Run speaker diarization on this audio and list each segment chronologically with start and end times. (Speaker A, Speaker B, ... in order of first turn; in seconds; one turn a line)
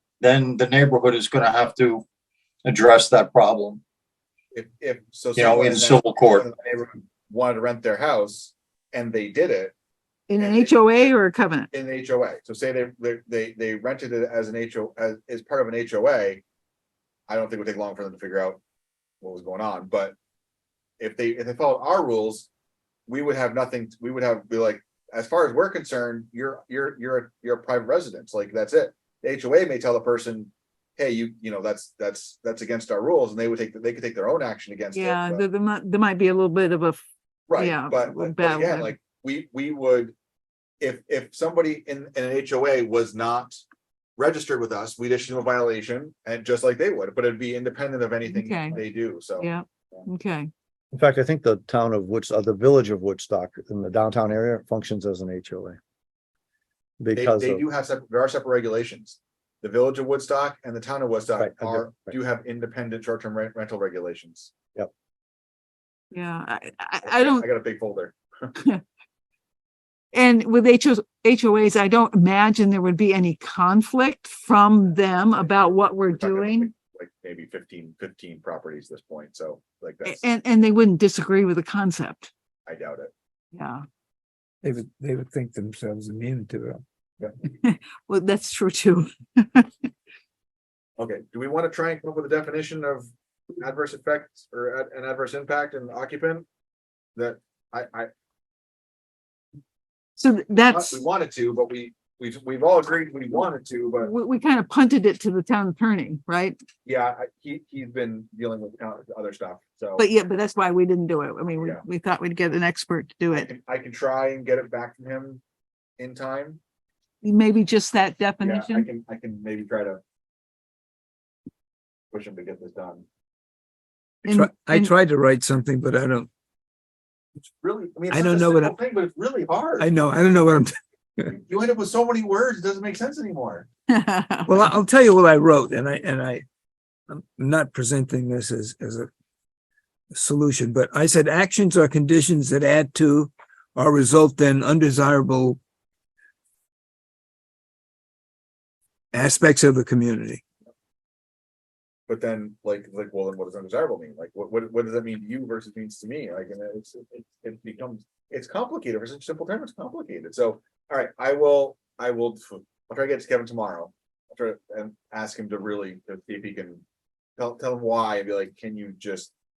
Speaker A: 0.2-2.0
Speaker A: 2.6-3.8
Speaker B: 4.5-9.7
Speaker A: 5.3-6.5
Speaker C: 10.3-11.7
Speaker B: 10.4-11.2
Speaker B: 11.7-16.4
Speaker B: 17.3-18.6
Speaker B: 19.2-20.1
Speaker B: 21.0-22.5
Speaker B: 23.1-35.5
Speaker C: 34.9-37.0
Speaker B: 37.5-40.1
Speaker C: 37.5-38.9
Speaker B: 40.8-43.6
Speaker B: 44.2-50.1
Speaker C: 48.2-48.8
Speaker C: 49.4-50.5
Speaker D: 50.9-55.8
Speaker D: 57.0-57.6
Speaker B: 57.1-64.5
Speaker D: 61.4-62.2
Speaker C: 66.1-67.4
Speaker B: 67.0-68.5
Speaker C: 70.1-76.7
Speaker B: 74.8-80.2
Speaker C: 80.0-82.3
Speaker B: 82.7-83.1
Speaker C: 83.5-83.8
Speaker E: 84.6-86.8
Speaker C: 87.6-89.9
Speaker B: 91.0-96.5
Speaker B: 97.2-98.1
Speaker C: 100.2-101.0
Speaker B: 100.5-104.1
Speaker C: 104.0-106.6
Speaker B: 106.8-110.1
Speaker C: 110.0-113.5
Speaker B: 111.6-111.8
Speaker B: 113.3-115.4
Speaker B: 116.0-116.6
Speaker C: 117.2-118.9
Speaker B: 118.4-120.0
Speaker B: 122.1-123.0
Speaker C: 124.2-124.9
Speaker E: 124.3-126.3
Speaker B: 127.6-129.9
Speaker E: 128.1-128.7
Speaker E: 129.8-131.3
Speaker B: 131.3-133.7
Speaker C: 133.9-134.5
Speaker E: 134.4-136.4
Speaker E: 137.1-139.1
Speaker E: 140.1-145.6
Speaker E: 149.1-150.4
Speaker B: 152.1-166.8
Speaker B: 167.4-169.3